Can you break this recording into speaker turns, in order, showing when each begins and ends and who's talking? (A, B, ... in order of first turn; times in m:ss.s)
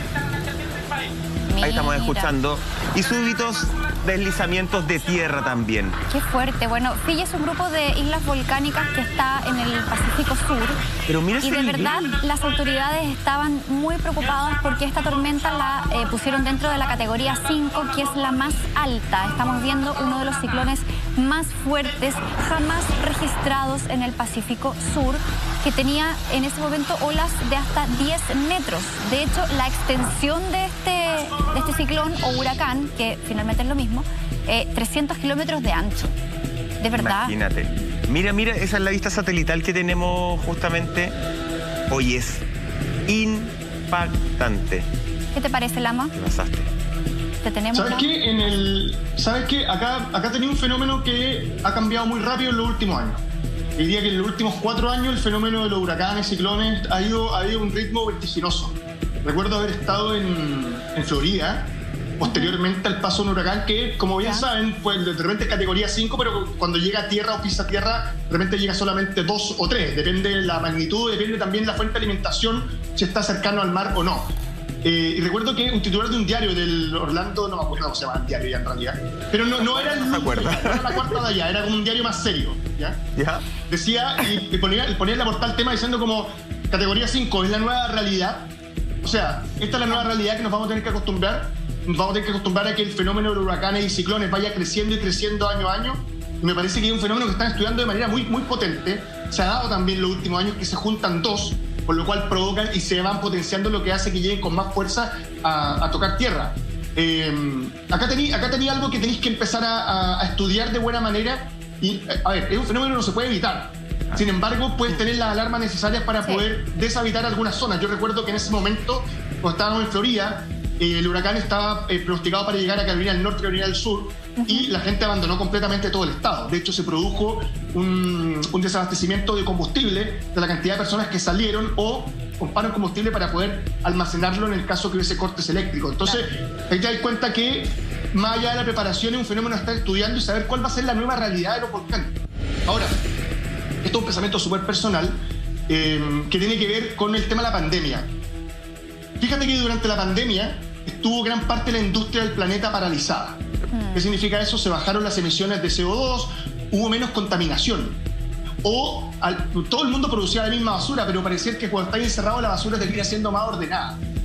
0:01.5-0:02.3 A
0:01.6-0:06.0 B
0:06.1-0:10.8 A
0:11.0-0:12.2 B
0:11.4-0:36.1 A
0:36.8-0:37.3 A
0:36.9-0:41.1 B
0:41.9-0:42.4 B
0:43.1-0:44.9 B
0:45.3-0:46.1 A
0:46.1-0:46.7 B
0:47.4-0:48.1 A
0:47.7-0:53.2 C
0:53.8-1:14.3 C
1:02.2-1:02.6 A
1:04.2-1:04.5 A
1:14.8-1:23.0 C
1:19.6-1:21.2 B
1:23.1-1:23.5 B
1:23.7-1:28.5 C
1:29.0-2:23.0 C
2:04.4-2:04.7 A
2:23.8-2:28.1 C
2:29.2-2:33.4 C
2:33.7-2:34.1 A
2:33.9-2:38.0 C
2:38.6-2:44.0 C